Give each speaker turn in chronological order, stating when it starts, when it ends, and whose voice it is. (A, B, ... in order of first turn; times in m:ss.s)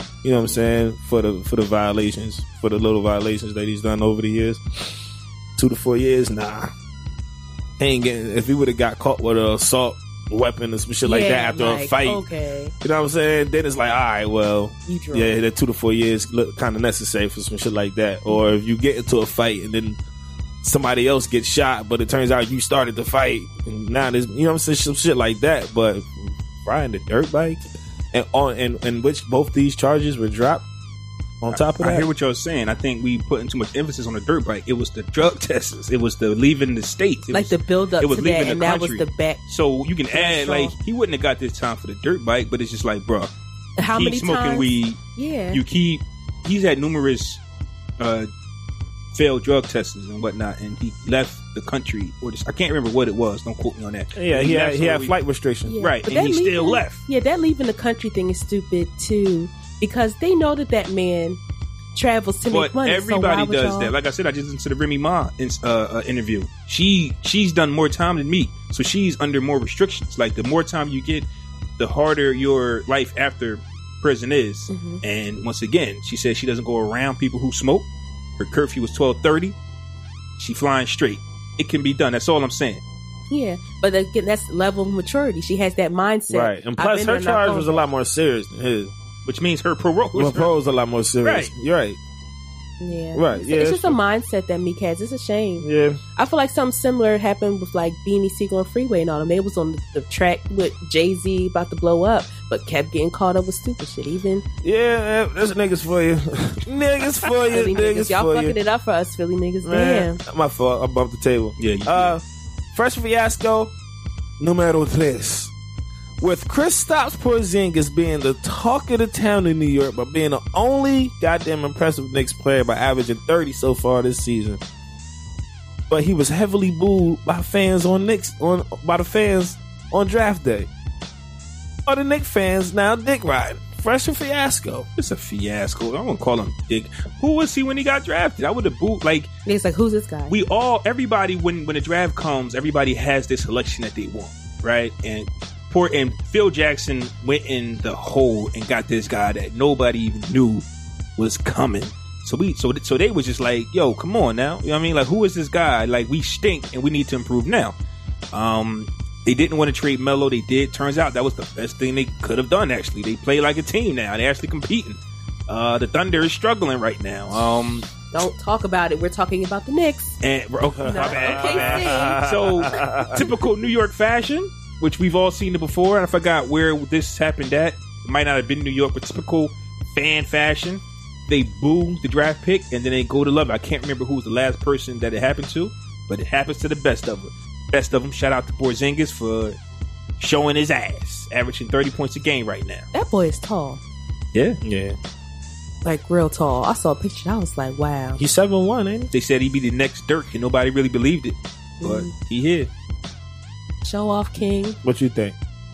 0:00.2-0:05.0 A
0:05.6-0:06.7 A
0:07.8-0:12.2 A
0:11.0-0:12.7 B
0:12.8-0:20.0 A
0:14.9-0:15.4 B
0:20.6-0:30.6 A
0:31.4-0:32.1 A
0:31.5-0:43.3 C
0:37.3-0:39.4 B
0:40.1-0:40.7 B
0:43.8-0:45.6 B
0:43.8-0:45.0 C
0:45.5-0:47.4 C
0:48.0-0:48.3 C
0:49.1-0:55.1 C
0:54.1-0:55.8 A
0:55.6-1:01.4 B
0:55.8-0:57.0 C
1:01.9-1:03.9 B
1:02.5-1:11.2 C
1:11.8-1:17.9 C
1:14.7-1:15.0 B
1:18.4-1:19.5 C
1:20.4-1:22.8 C
1:23.3-1:27.8 B
1:26.3-1:28.9 A
1:29.2-1:30.5 C
1:30.1-1:32.0 A
1:31.2-1:31.5 C
1:32.8-1:44.4 B
1:33.1-1:34.0 A
1:35.6-1:36.0 A
1:44.6-1:48.6 A
1:47.5-1:50.2 B
1:49.6-1:53.7 A
1:51.6-1:52.2 C
1:54.4-1:55.5 A
1:56.2-2:04.6 A
2:05.9-2:10.7 A
2:11.8-2:14.9 A
2:15.0-2:19.3 C
2:19.4-2:20.3 B
2:20.3-2:30.6 C
2:31.2-2:37.8 C
2:38.3-2:47.9 C
2:48.1-2:50.2 B
2:50.2-3:09.6 C
2:50.6-2:53.2 A
2:50.8-2:52.2 B
3:10.2-3:12.9 C
3:12.9-3:13.8 B
3:14.3-3:14.6 C
3:14.6-3:15.0 A
3:15.8-3:18.2 B
3:18.2-3:19.1 A
3:19.1-3:22.7 C
3:21.8-3:22.1 B
3:23.8-3:24.8 B
3:24.8-3:25.4 A